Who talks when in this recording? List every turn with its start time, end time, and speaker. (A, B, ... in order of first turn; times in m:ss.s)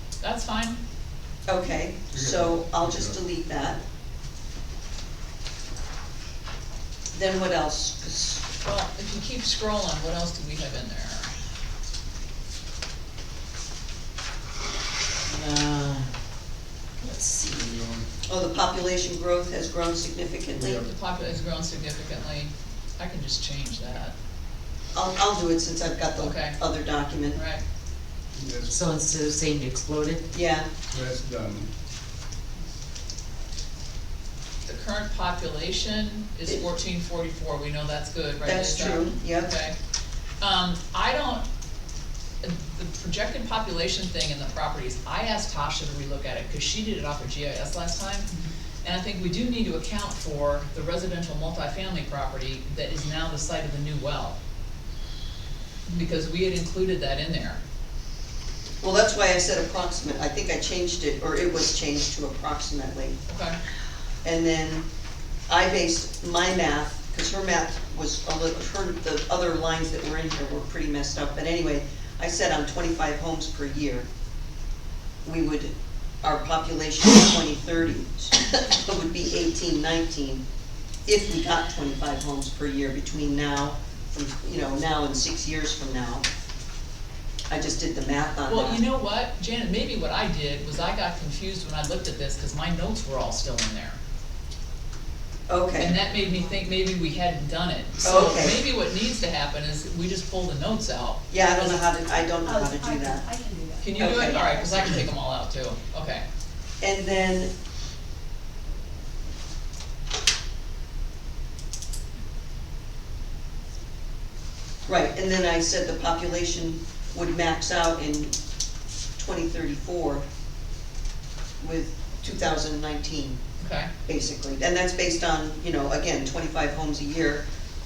0:00.2-0:00.8 A
0:01.5-0:03.8 B
0:02.1-0:03.2 C
0:07.1-0:08.4 B
0:08.6-0:11.3 A
0:15.3-0:16.1 D
0:17.0-0:18.1 D
0:18.3-0:20.8 B
0:20.6-0:20.9 C
0:20.7-0:24.1 A
0:24.9-0:27.4 B
0:26.2-0:26.6 A
0:27.3-0:27.6 A
0:28.3-0:28.8 C
0:28.7-0:30.2 D
0:30.3-0:30.7 B
0:30.9-0:31.7 C
0:34.7-0:39.8 A
0:38.4-0:39.5 B
0:40.4-0:41.4 A
0:42.4-0:48.3 A
0:48.8-0:54.4 A
0:55.9-0:57.6 A
0:58.8-1:03.2 B
1:03.3-1:03.6 A
1:04.2-1:04.9 B
1:05.5-1:14.1 B
1:15.2-1:20.4 B
1:21.1-1:26.2 B
1:27.5-1:28.8 B
1:28.5-1:34.0 A
1:35.5-1:36.0 B
1:35.8-1:41.8 A
1:38.0-1:38.6 B
1:41.3-1:43.2 B
1:42.4-1:45.0 E
1:43.8-1:46.2 A
1:44.0-1:44.4 B
1:46.8-1:47.5 B
1:54.9-1:58.4 B
1:59.2-2:00.2 B
2:01.6-2:03.4 B
2:03.6-2:03.9 A
2:04.0-2:07.4 B